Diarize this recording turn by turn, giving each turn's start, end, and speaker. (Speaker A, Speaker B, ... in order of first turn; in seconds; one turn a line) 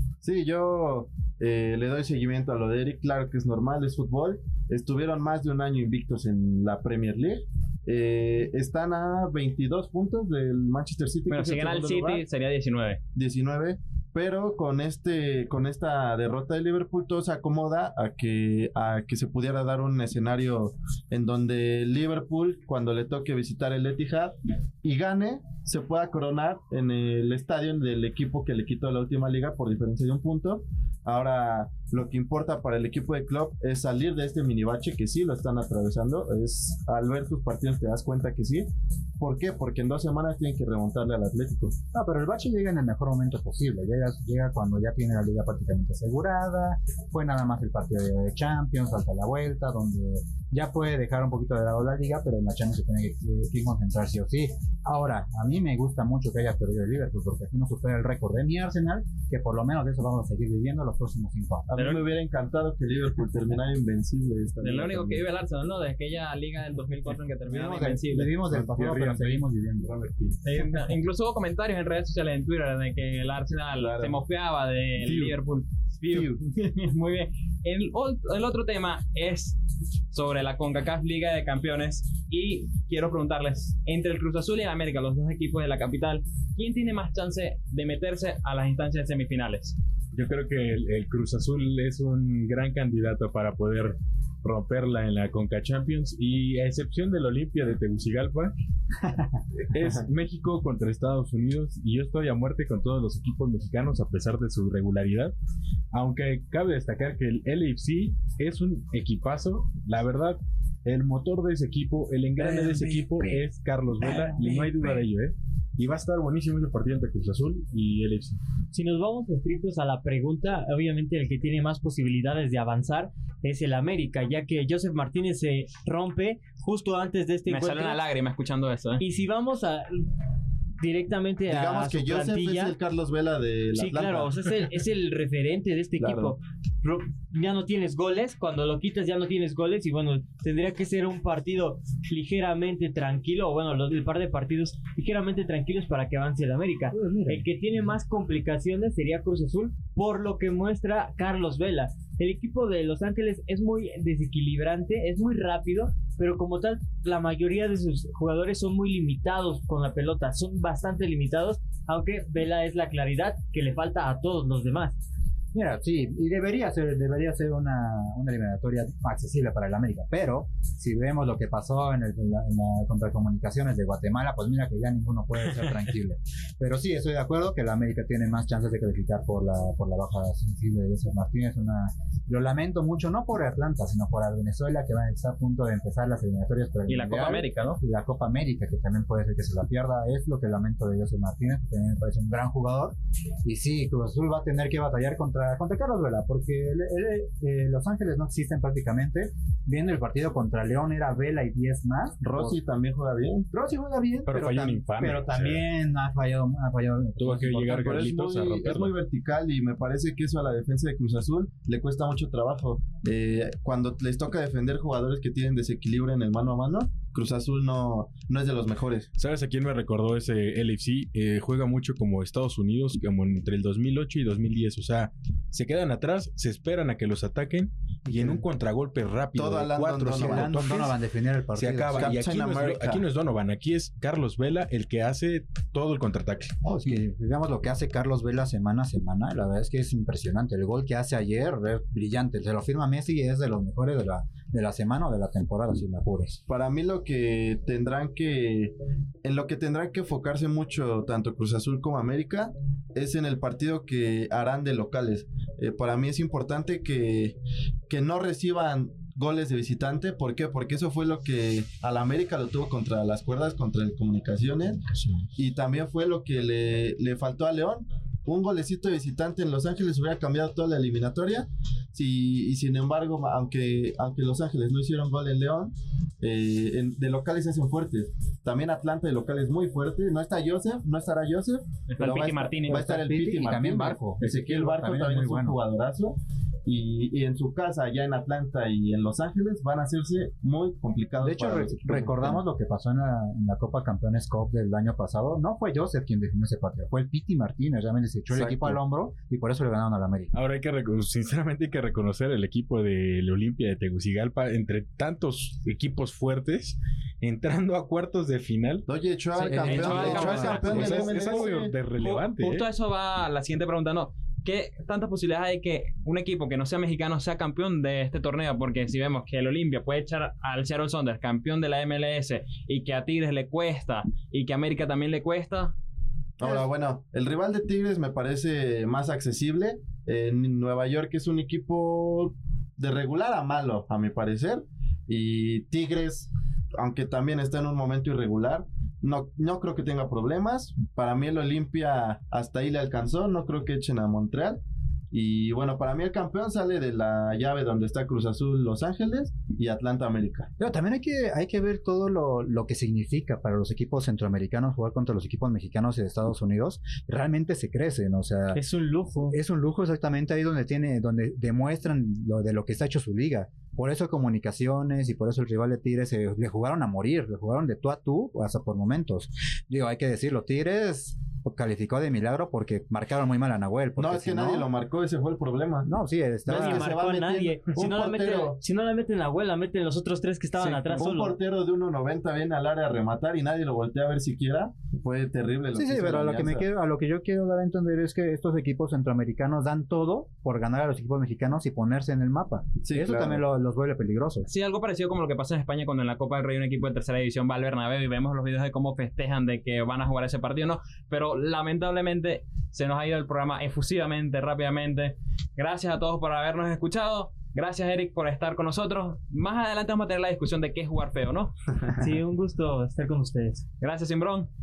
Speaker A: 0.2-12.2
Speaker B: 11.3-13.0
Speaker A: 13.2-41.8
Speaker C: 41.9-61.7
Speaker A: 61.7-65.2
Speaker B: 61.8-62.0
Speaker B: 64.6-68.3
Speaker C: 67.5-70.0
Speaker D: 68.5-70.4
Speaker B: 70.4-79.6
Speaker A: 73.8-74.2
Speaker B: 80.1-89.8
Speaker D: 90.1-98.5
Speaker D: 99.7-105.3
Speaker D: 105.9-118.4
Speaker E: 118.7-128.0
Speaker B: 127.5-129.0
Speaker E: 129.0-130.0
Speaker E: 130.8-132.8
Speaker A: 131.5-134.5
Speaker E: 133.7-165.0
Speaker A: 136.0-136.3
Speaker C: 146.9-147.4
Speaker C: 165.5-202.6
Speaker B: 186.9-187.8
Speaker A: 202.2-203.5
Speaker C: 203.5-208.2
Speaker D: 204.3-205.7
Speaker D: 207.2-208.9
Speaker A: 207.7-219.1
Speaker D: 219.2-231.0
Speaker C: 228.1-228.4
Speaker A: 229.3-230.8
Speaker C: 230.1-232.2
Speaker D: 231.6-236.6
Speaker A: 231.9-233.1
Speaker C: 236.7-246.4
Speaker A: 246.5-257.4
Speaker A: 257.9-264.8
Speaker A: 265.4-292.4
Speaker B: 281.9-282.8
Speaker C: 282.7-285.6
Speaker C: 291.2-300.3
Speaker A: 298.3-298.8
Speaker D: 300.3-308.9
Speaker A: 308.9-311.7
Speaker C: 309.4-311.3
Speaker D: 309.4-312.7
Speaker B: 309.6-311.5
Speaker B: 312.0-325.8
Speaker A: 326.4-350.5
Speaker C: 326.4-326.7
Speaker C: 350.6-358.6
Speaker E: 358.5-359.4
Speaker C: 359.3-374.7
Speaker A: 374.0-375.9
Speaker C: 375.9-376.9
Speaker A: 376.5-378.6
Speaker E: 376.5-381.4
Speaker C: 380.6-381.1
Speaker A: 380.9-386.7
Speaker C: 385.7-394.5
Speaker A: 392.8-393.4
Speaker B: 394.5-411.5
Speaker E: 412.0-413.6
Speaker B: 413.8-414.5